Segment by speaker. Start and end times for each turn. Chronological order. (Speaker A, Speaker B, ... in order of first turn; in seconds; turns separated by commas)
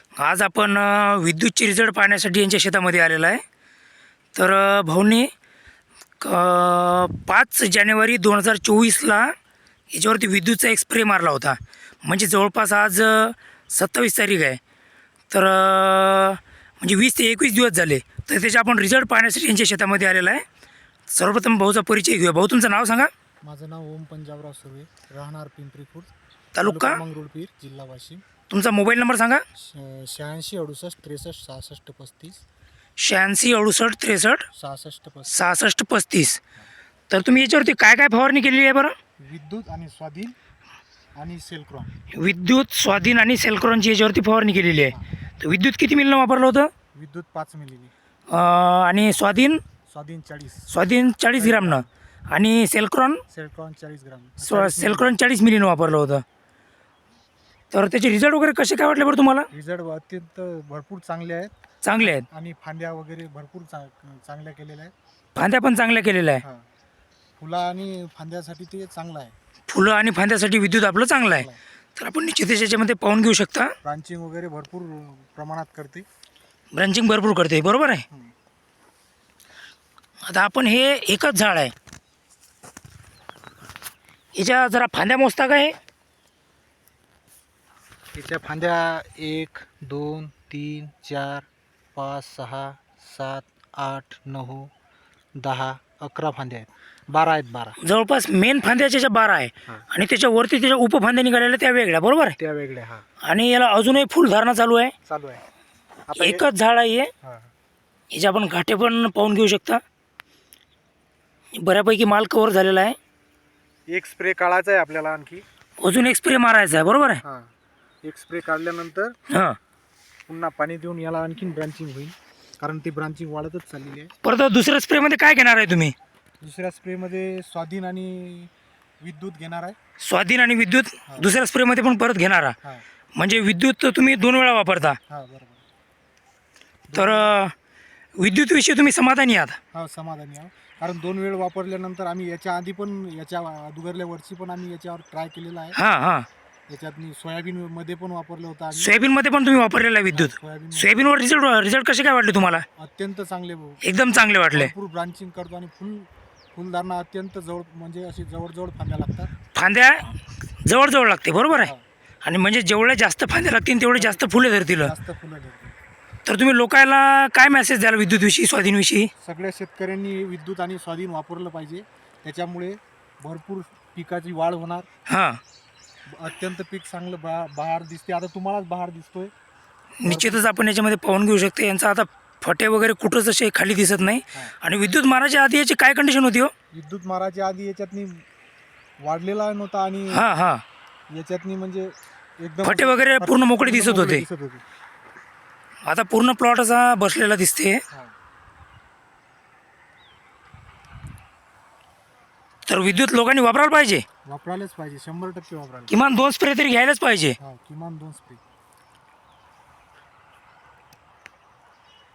Speaker A: 0.2-3.4, Speaker A: 4.3-5.3, Speaker A: 6.2-9.3, Speaker A: 9.9-14.6, Speaker A: 15.3-20.4, Speaker A: 21.1-23.1, Speaker B: 23.4-26.1, Speaker A: 26.6-27.0, Speaker B: 26.6-28.2, Speaker A: 28.5-29.4, Speaker B: 29.6-32.4, Speaker A: 33.0-34.5, Speaker B: 34.5-35.3, Speaker A: 35.3-36.4, Speaker A: 37.1-39.0, Speaker B: 39.2-40.4, Speaker B: 41.2-41.9, Speaker A: 42.1-46.7, Speaker B: 47.0-47.9, Speaker A: 48.3-49.6, Speaker B: 49.9-50.7, Speaker A: 50.7-53.2, Speaker B: 51.4-51.9, Speaker B: 53.3-55.1, Speaker A: 54.4-56.2, Speaker A: 57.7-59.5, Speaker B: 59.5-64.9, Speaker A: 61.8-62.3, Speaker A: 65.4-66.4, Speaker B: 66.4-66.7, Speaker B: 67.4-69.3, Speaker A: 69.7-73.8, Speaker B: 71.3-71.6, Speaker B: 73.8-76.1, Speaker A: 76.7-78.0, Speaker A: 80.2-81.7, Speaker A: 84.3-85.8, Speaker B: 88.1-94.7, Speaker B: 95.4-97.8, Speaker A: 97.8-102.4, Speaker B: 102.4-103.1, Speaker A: 103.2-104.9, Speaker B: 105.1-105.4, Speaker B: 106.1-106.5, Speaker A: 106.2-107.1, Speaker B: 107.2-107.5, Speaker A: 108.1-109.8, Speaker A: 111.5-113.0, Speaker B: 113.9-115.5, Speaker A: 115.8-117.2, Speaker B: 117.2-119.2, Speaker A: 119.3-119.6, Speaker B: 120.3-124.1, Speaker A: 124.2-126.0, Speaker B: 126.4-129.8, Speaker A: 130.0-132.6, Speaker B: 131.1-131.4, Speaker A: 133.2-135.0, Speaker B: 135.1-135.6, Speaker B: 136.9-137.4, Speaker A: 136.9-137.5, Speaker A: 138.2-139.6, Speaker B: 139.7-145.8, Speaker A: 145.8-146.3, Speaker B: 146.7-149.0, Speaker A: 148.7-152.7, Speaker B: 150.1-151.2, Speaker B: 152.8-159.3, Speaker A: 153.8-154.7, Speaker A: 159.4-161.7, Speaker B: 161.5-161.8, Speaker A: 162.2-164.9, Speaker B: 164.0-165.8, Speaker A: 166.3-169.1, Speaker B: 169.2-174.9, Speaker A: 175.1-175.4, Speaker B: 176.1-179.3, Speaker A: 180.0-186.5, Speaker B: 180.1-180.5, Speaker B: 186.7-188.2, Speaker B: 189.0-190.3, Speaker A: 190.1-190.6, Speaker B: 191.1-194.6, Speaker A: 192.6-194.2, Speaker A: 195.8-197.8, Speaker A: 202.7-204.1, Speaker B: 204.2-206.1, Speaker A: 205.9-207.4, Speaker B: 207.4-208.4